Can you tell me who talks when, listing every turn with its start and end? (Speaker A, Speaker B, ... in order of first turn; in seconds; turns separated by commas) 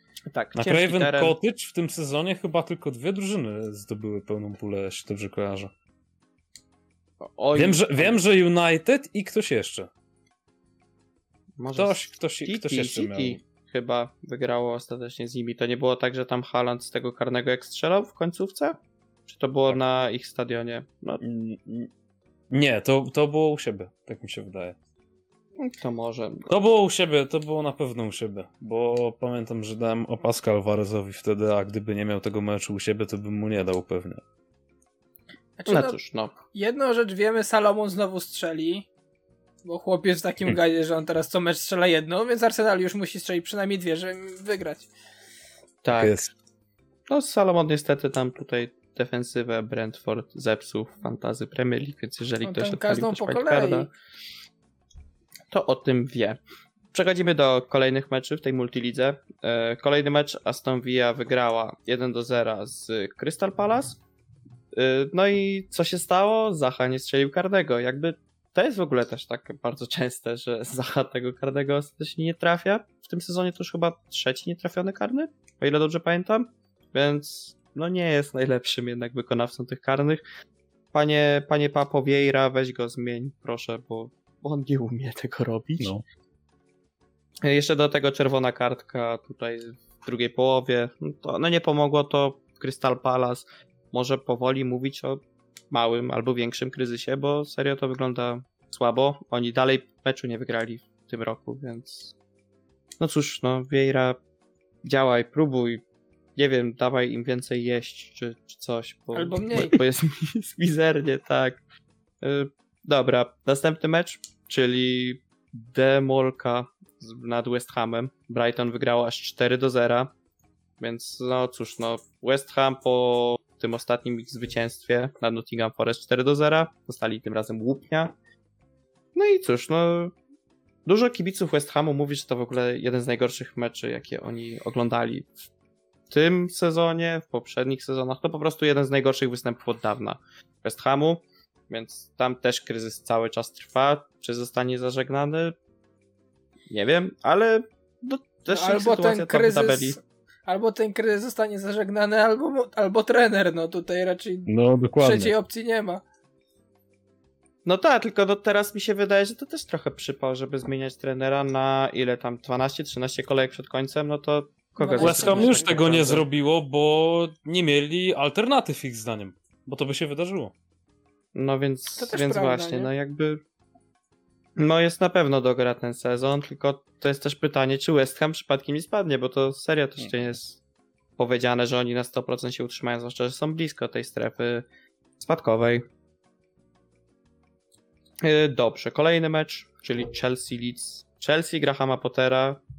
Speaker A: 0.3-1.4, Speaker B: 0.6-5.7, Speaker A: 7.2-8.2, Speaker B: 7.5-9.9, Speaker A: 11.6-21.2, Speaker B: 11.7-13.4, Speaker B: 21.2-21.9, Speaker B: 22.5-24.8, Speaker A: 25.6-26.5, Speaker B: 26.5-34.2, Speaker C: 35.6-36.0, Speaker A: 35.7-36.4, Speaker C: 36.5-38.9, Speaker C: 39.6-44.9, Speaker A: 45.8-46.2, Speaker B: 45.9-46.3, Speaker A: 47.1-53.9, Speaker C: 52.4-53.9, Speaker A: 55.5-56.4, Speaker A: 56.9-64.0, Speaker A: 64.7-80.2, Speaker A: 80.9-85.9, Speaker A: 87.4-102.1, Speaker A: 103.0-104.2, Speaker A: 104.8-105.8, Speaker A: 106.4-111.6, Speaker C: 109.1-109.8, Speaker A: 112.2-120.1, Speaker A: 120.8-128.1, Speaker A: 129.1-130.1, Speaker A: 130.9-135.3, Speaker A: 136.1-145.6, Speaker A: 146.7-150.0, Speaker C: 148.5-156.0, Speaker B: 154.5-155.3, Speaker A: 157.6-166.2, Speaker C: 164.8-165.8, Speaker B: 165.0-170.5, Speaker A: 171.3-173.4, Speaker C: 172.0-172.9, Speaker A: 174.6-180.6, Speaker A: 181.2-184.7, Speaker A: 185.2-185.8, Speaker A: 188.2-192.6